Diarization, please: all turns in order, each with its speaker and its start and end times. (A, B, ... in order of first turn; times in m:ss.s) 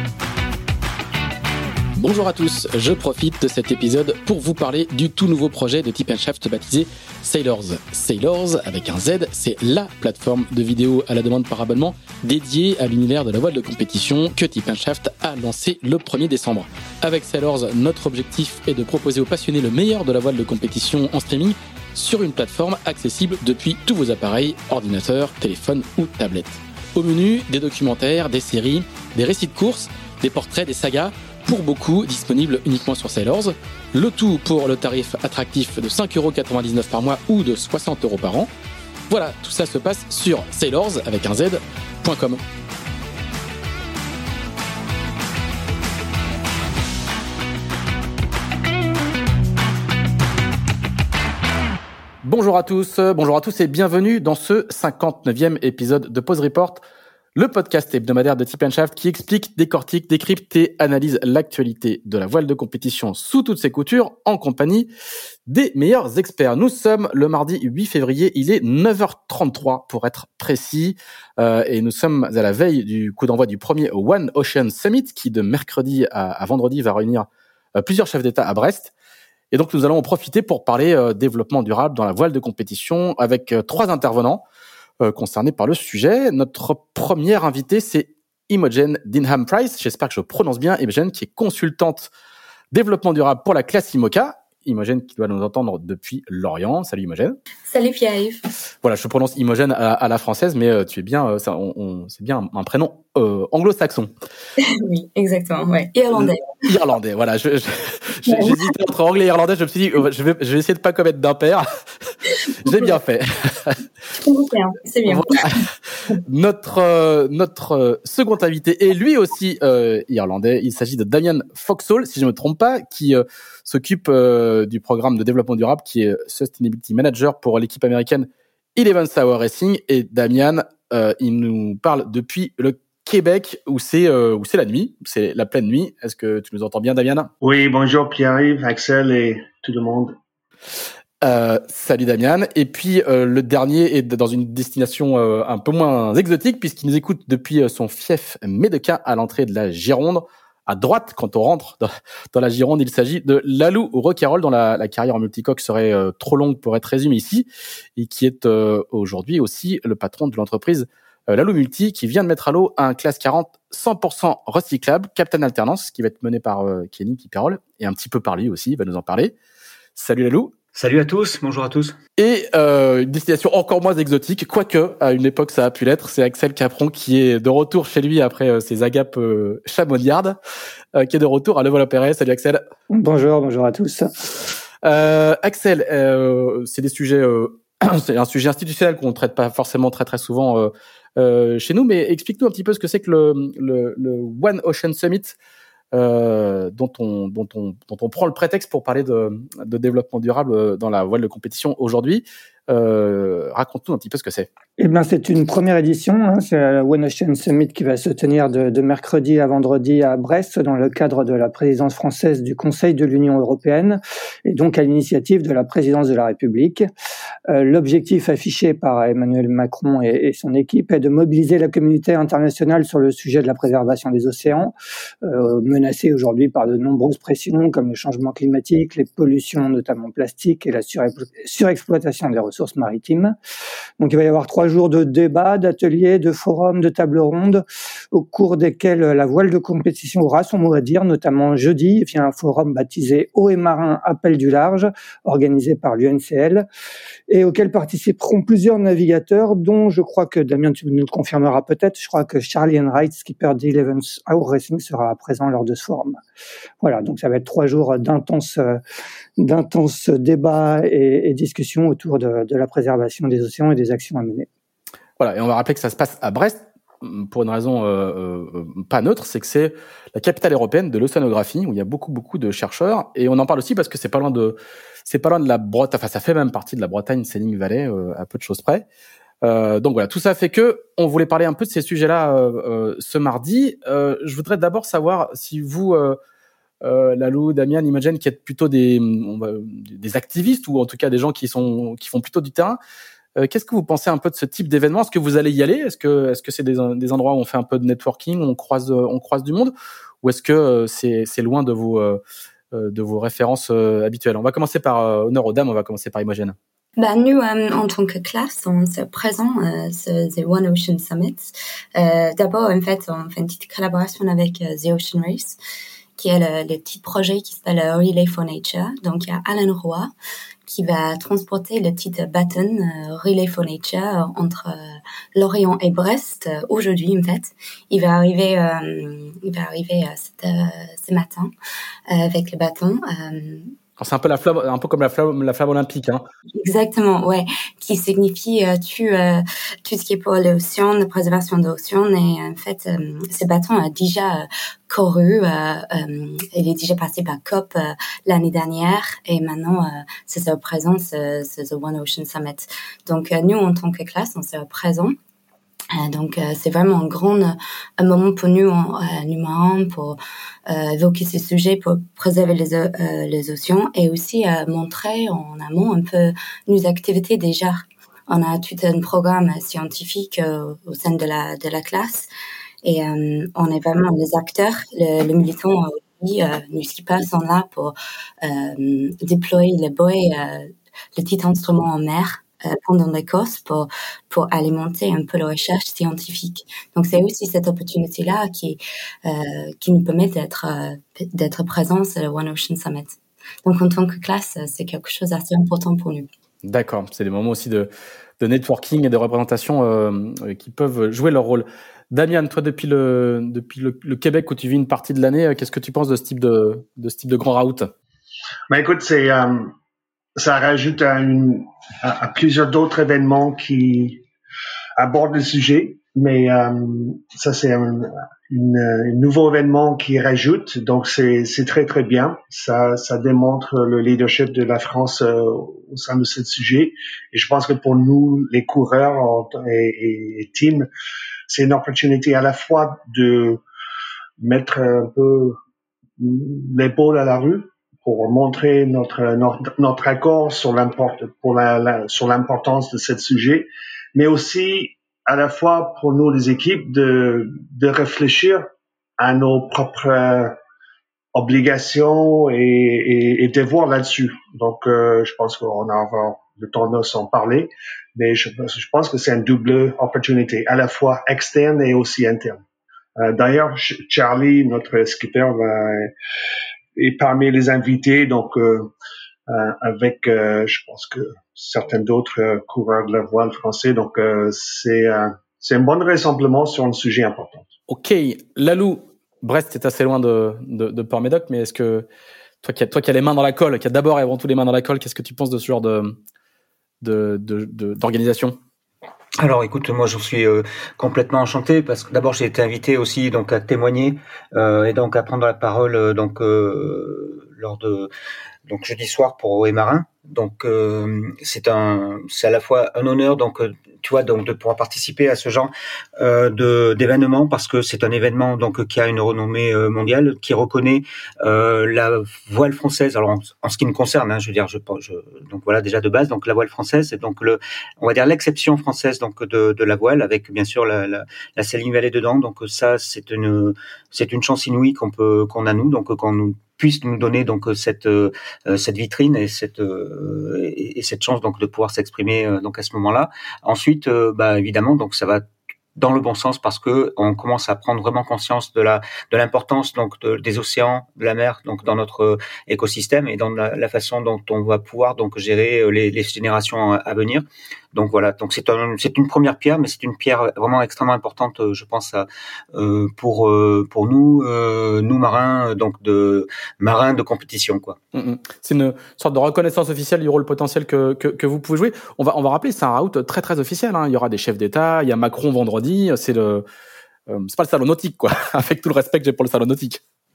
0:02.0-0:38.5 A
0:39.1-0:42.4 A
0:52.2-0:56.8 A
0:57.3-1:04.9 A
1:05.5-1:18.9 A
1:19.5-1:24.4 A
1:25.0-1:32.1 A
1:32.7-1:37.4 A
1:37.7-1:38.4 B
1:38.8-1:44.1 A
1:44.6-1:46.6 B
1:46.6-1:53.8 A
1:48.3-1:48.6 B
1:54.2-1:55.7 B
1:55.0-1:55.6 A
1:56.1-2:17.3 A
2:17.4-2:20.1 C
2:21.2-2:49.3 A
2:50.0-2:50.5 A
2:50.7-2:51.9 D
2:52.2-3:00.4 A
3:00.9-3:02.6 A
3:02.9-3:04.3 E
3:04.8-3:15.4 A
3:15.9-3:24.5 A
3:24.8-3:36.8 E
3:37.5-3:44.7 E
3:45.2-3:53.3 E
3:54.0-4:06.6 E
4:07.3-4:16.2 E
4:16.8-4:18.8 E
4:19.4-4:24.5 E
4:25.2-4:38.8 A
4:39.4-4:46.2 A
4:46.8-4:52.8 A
4:53.4-5:02.2 A
5:02.7-5:06.6 A
5:07.0-5:15.6 B
5:16.2-5:20.1 B
5:20.7-5:31.5 B
5:32.1-5:33.7 B
5:34.0-5:36.2 A
5:36.6-5:55.1 B
5:55.9-6:12.3 B
6:12.8-6:36.3 B
6:36.6-6:37.9 A
6:38.4-6:47.9 A
6:48.7-6:49.7 C
6:50.4-6:54.2 C
6:55.0-7:10.9 C
7:11.5-7:13.6 C
7:14.4-7:15.6 C
7:16.2-7:28.6 C
7:29.2-7:30.6 C
7:31.3-7:42.6 C
7:43.2-7:46.1 C
7:47.0-7:48.9 C
7:49.5-7:57.7 C
7:57.9-8:02.0 A
8:02.6-8:06.2 A
8:07.0-8:08.6 A
8:09.4-8:18.1 D
8:18.6-8:55.4 D
8:56.0-9:18.0 D
9:18.1-9:26.6 A
9:27.3-9:30.0 A